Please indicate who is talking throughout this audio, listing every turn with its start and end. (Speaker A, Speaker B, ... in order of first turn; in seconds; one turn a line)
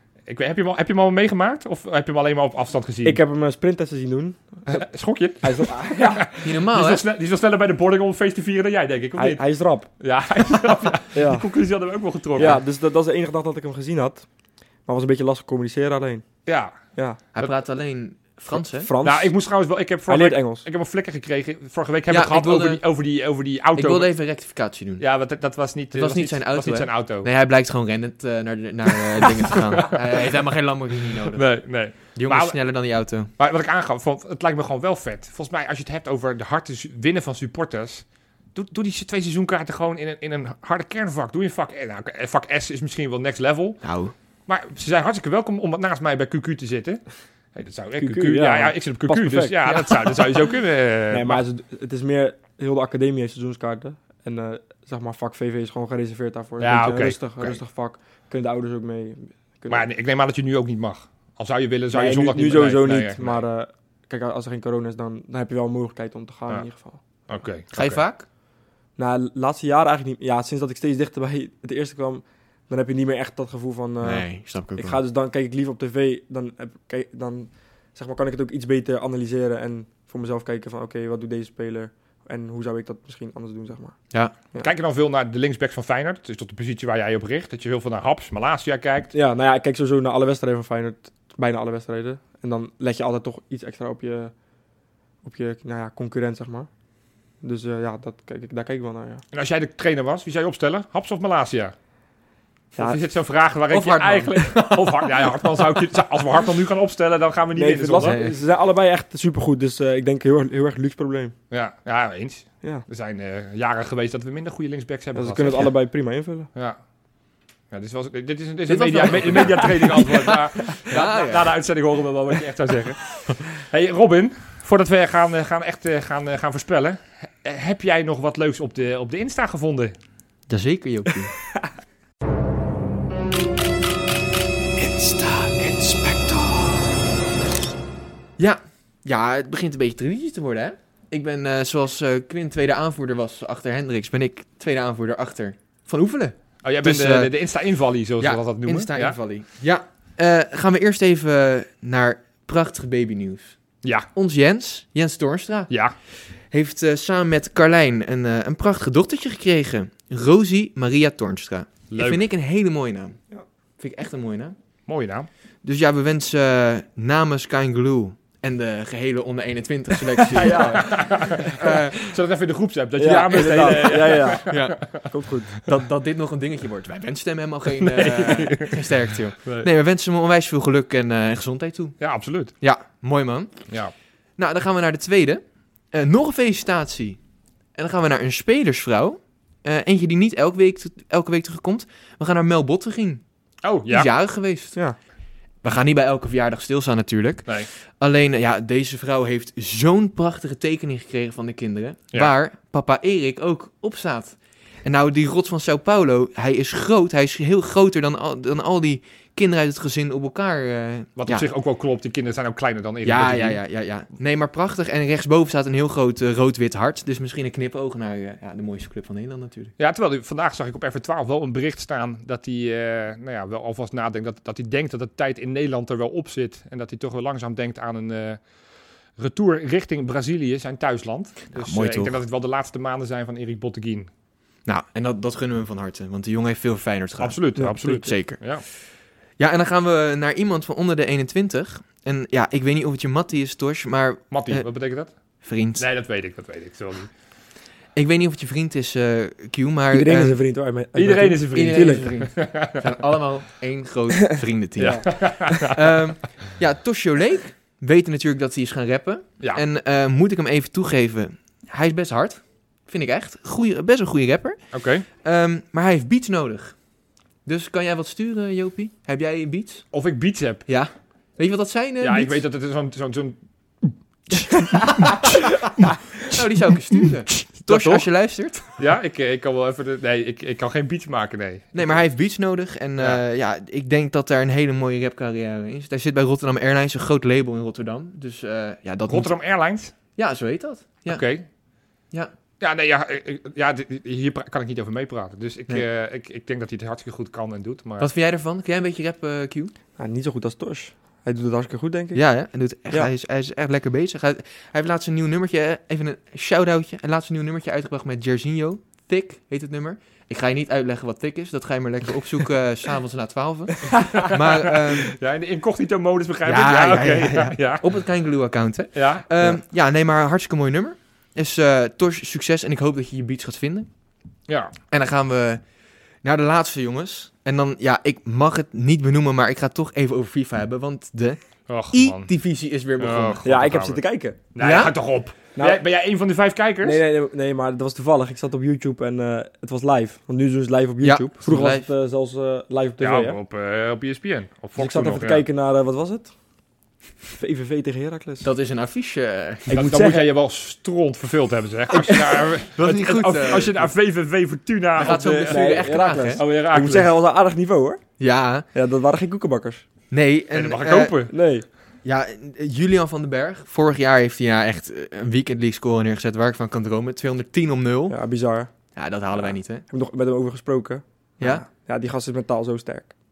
Speaker A: 0.3-3.2
Speaker B: 3.0-4.6
Speaker A: 4.7-9.4
Speaker B: 5.4-6.4
Speaker C: 6.4-7.0
Speaker B: 9.2-9.9
Speaker A: 10.0-12.6
Speaker B: 11.1-11.5
Speaker B: 12.4-14.3
Speaker B: 14.9-16.2
Speaker A: 16.4-16.8
Speaker C: 17.4-18.9
Speaker B: 18.7-19.3
Speaker A: 19.0-24.1
Speaker B: 20.1-20.7
Speaker C: 22.1-22.8
Speaker C: 23.8-25.0
Speaker A: 25.0-27.3
Speaker C: 25.9-31.4
Speaker A: 31.3-32.6
Speaker C: 32.1-33.3
Speaker A: 33.4-38.0
Speaker A: 38.5-43.8
Speaker C: 43.8-44.1
Speaker A: 44.5-47.0
Speaker A: 47.5-51.4
Speaker B: 48.0-50.3
Speaker B: 51.1-59.9
Speaker A: 56.6-57.6
Speaker A: 59.7-63.4
Speaker B: 61.9-67.0
Speaker A: 67.3-68.0
Speaker C: 67.7-68.3
Speaker B: 69.0-84.0
Speaker C: 74.0-75.0
Speaker A: 84.6-89.1
Speaker B: 89.1-94.3
Speaker B: 95.2-96.7
Speaker B: 97.4-99.2
Speaker A: 99.3-101.7
Speaker A: 102.8-108.2
Speaker C: 103.7-105.8
Speaker B: 107.6-111.3
Speaker C: 108.0-108.4
Speaker A: 111.5-115.8
Speaker B: 115.1-116.5
Speaker A: 117.7-129.9
Speaker C: 118.7-121.5
Speaker C: 130.5-131.3
Speaker C: 134.8-136.9
Speaker C: 138.4-147.3
Speaker A: 146.6-149.2
Speaker C: 148.2-153.6
Speaker C: 154.1-155.7
Speaker A: 155.7-155.9
Speaker C: 156.4-163.2
Speaker A: 161.9-162.2
Speaker C: 163.8-164.6
Speaker A: 164.9-165.3
Speaker C: 165.6-172.0
Speaker B: 170.3-171.5
Speaker A: 170.8-175.0
Speaker B: 173.0-175.5
Speaker C: 173.6-174.9
Speaker C: 175.6-182.0
Speaker A: 177.8-178.9
Speaker A: 182.0-182.5
Speaker C: 182.6-183.7
Speaker C: 184.4-187.2
Speaker C: 187.8-193.2
Speaker A: 193.6-194.1
Speaker C: 193.9-194.8
Speaker C: 195.6-211.4
Speaker A: 211.2-213.6
Speaker C: 213.0-219.7
Speaker A: 219.8-228.4
Speaker A: 229.2-234.1
Speaker C: 231.5-232.2
Speaker C: 234.7-238.6
Speaker A: 237.2-238.6
Speaker B: 237.6-238.0
Speaker C: 239.4-244.7
Speaker A: 244.3-245.1
Speaker C: 245.4-245.8
Speaker A: 245.8-247.1
Speaker C: 247.9-250.4
Speaker B: 249.9-252.1
Speaker A: 250.9-252.9
Speaker C: 251.5-264.6
Speaker A: 254.8-255.8
Speaker A: 264.7-265.1
Speaker C: 265.2-266.8
Speaker C: 267.4-269.9
Speaker A: 269.9-270.7
Speaker C: 270.7-272.4
Speaker A: 272.0-275.9
Speaker C: 274.7-275.5
Speaker C: 276.3-278.7
Speaker A: 277.4-278.1
Speaker A: 278.7-282.0
Speaker C: 281.7-289.3
Speaker A: 289.1-289.9
Speaker C: 290.2-291.2
Speaker A: 291.1-291.4
Speaker A: 292.6-298.1
Speaker C: 298.0-299.7
Speaker B: 300.0-302.2
Speaker C: 302.1-315.2
Speaker A: 313.9-317.8
Speaker C: 316.4-323.9
Speaker A: 318.9-319.6
Speaker A: 324.5-324.7
Speaker C: 324.9-325.6
Speaker C: 326.2-331.4
Speaker A: 331.7-332.3
Speaker C: 331.9-333.4
Speaker A: 333.0-334.0
Speaker B: 333.4-334.4
Speaker A: 334.5-337.0
Speaker C: 334.6-334.9
Speaker B: 335.6-335.8
Speaker B: 336.8-343.4
Speaker C: 341.0-341.9
Speaker A: 343.0-345.4
Speaker B: 344.8-346.3
Speaker B: 347.3-348.5
Speaker C: 348.4-349.8
Speaker B: 349.7-350.3
Speaker A: 349.7-357.1
Speaker C: 352.7-353.9
Speaker C: 355.0-356.4
Speaker B: 355.0-358.0
Speaker C: 358.2-358.7
Speaker B: 358.7-359.9
Speaker C: 360.1-361.2
Speaker A: 360.5-361.3
Speaker B: 361.3-361.7
Speaker C: 362.0-368.2
Speaker B: 368.1-368.7
Speaker C: 368.9-369.9
Speaker B: 369.9-373.1
Speaker C: 371.4-371.6